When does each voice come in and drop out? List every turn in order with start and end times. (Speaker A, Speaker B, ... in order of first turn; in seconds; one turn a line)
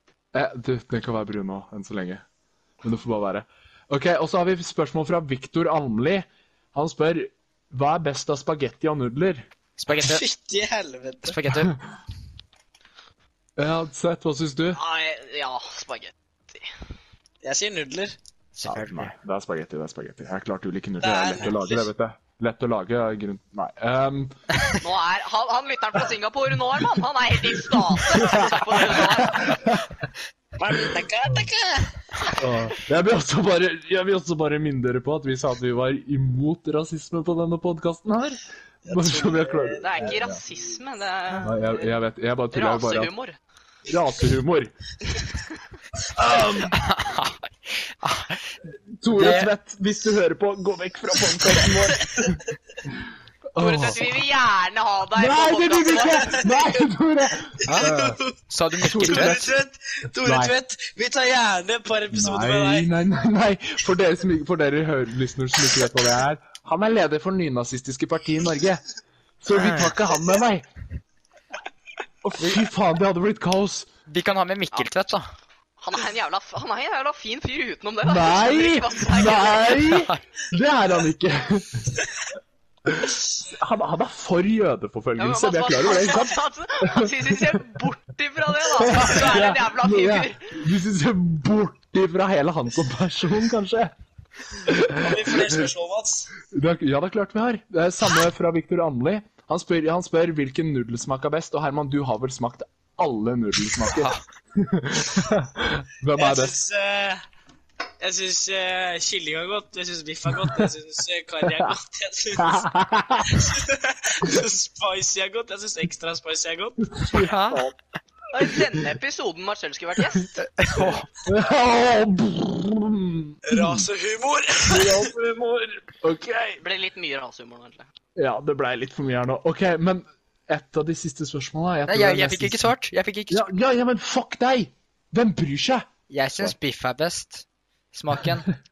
Speaker A: 0.3-2.2
Speaker A: 2.8-9.5
Speaker B: 9.8-10.2
Speaker C: 9.9-11.4
Speaker B: 11.2-11.8
Speaker A: 13.6-14.8
Speaker D: 14.7-16.7
Speaker C: 17.4-18.1
Speaker B: 18.5-19.1
Speaker A: 18.6-24.5
Speaker C: 21.0-21.9
Speaker D: 24.8-29.8
Speaker A: 28.0-29.9
Speaker C: 30.6-32.0
Speaker A: 32.4-40.4
Speaker C: 38.9-40.2
Speaker D: 39.8-41.5
Speaker A: 41.4-43.1
Speaker D: 42.5-43.4
Speaker A: 43.9-44.7
Speaker A: 46.1-46.8
Speaker B: 46.7-47.4
Speaker B: 48.0-48.5
Speaker A: 49.0-53.0
Speaker B: 49.1-49.5
Speaker C: 51.9-52.4
Speaker A: 53.5-54.1
Speaker D: 53.6-56.5
Speaker A: 55.1-58.2
Speaker C: 55.9-56.8
Speaker C: 57.5-58.4
Speaker B: 57.6-58.0
Speaker B: 58.5-59.5
Speaker A: 58.8-59.5
Speaker C: 59.0-62.9
Speaker A: 60.2-60.5
Speaker A: 62.1-68.8
Speaker A: 69.4-70.7
Speaker B: 69.5-69.9
Speaker A: 72.2-73.9
Speaker B: 74.1-75.3
Speaker D: 75.8-79.8
Speaker A: 78.0-82.0
Speaker A: 82.8-87.6
Speaker D: 85.2-90.5
Speaker A: 88.8-93.9
Speaker A: 94.5-95.7
Speaker C: 94.9-96.3
Speaker A: 96.5-106.5
Speaker B: 103.9-104.2
Speaker C: 106.2-107.2
Speaker C: 108.0-112.7
Speaker A: 112.4-113.5
Speaker C: 113.2-117.0
Speaker A: 117.0-117.7
Speaker B: 117.1-117.7
Speaker D: 118.3-120.4
Speaker A: 118.4-118.8
Speaker B: 120.4-121.1
Speaker A: 121.2-123.9
Speaker C: 123.5-125.1
Speaker A: 124.6-126.6
Speaker D: 126.6-127.9
Speaker A: 128.2-132.7
Speaker B: 131.9-133.5
Speaker A: 133.3-135.9
Speaker B: 136.1-138.5